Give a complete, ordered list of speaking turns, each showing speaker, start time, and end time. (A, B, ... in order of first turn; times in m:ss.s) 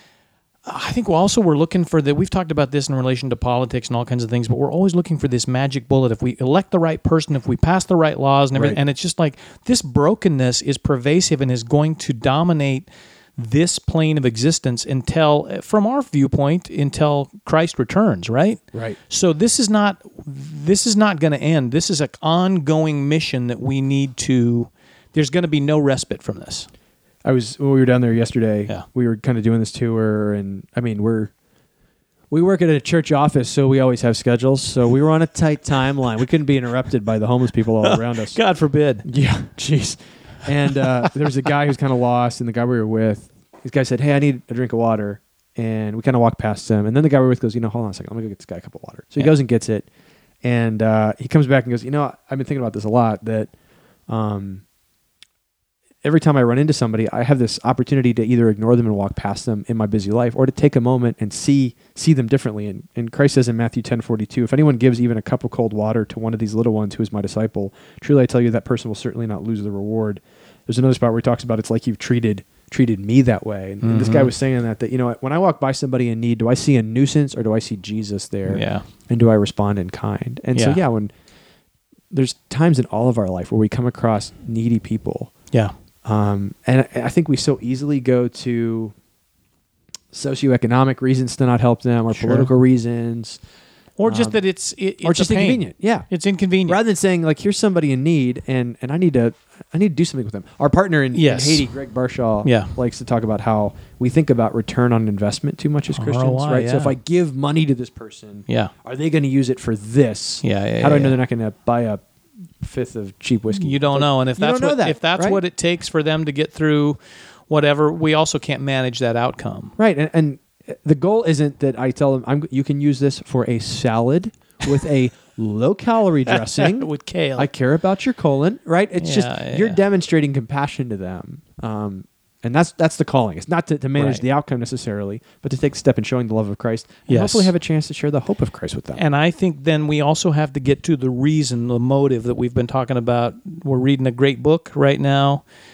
0:00.7-0:26.7 A
0:08.5-0:08.8 B
0:18.7-0:19.0 B
0:27.2-0:31.3 B
0:32.3-0:38.4 B
0:37.8-0:39.1 A
0:39.0-0:49.9 B
0:50.4-0:53.5 B
0:54.1-0:54.6 B
0:56.0-1:21.1 B
1:13.8-1:14.3 A
1:18.5-1:18.8 A
1:20.6-1:20.8 A
1:22.1-1:25.3 B
1:26.0-1:28.9 B
1:30.1-1:33.4 B
1:32.1-1:32.5 A
1:34.0-1:36.8 A
1:34.1-1:34.4 B
1:35.0-1:36.1 B
1:36.7-1:52.0 B
1:41.1-1:41.7 A
1:42.4-1:42.7 A
1:45.9-1:47.0 A
1:48.5-1:48.7 A
1:50.4-1:51.2 A
1:52.6-1:55.4 B
1:53.5-1:57.0 A
1:57.5-1:59.8 A
1:59.8-2:19.0 B
2:06.3-2:07.5 A
2:09.0-2:09.8 A
2:14.0-2:14.2 A
2:17.1-2:17.5 A
2:19.0-2:25.4 A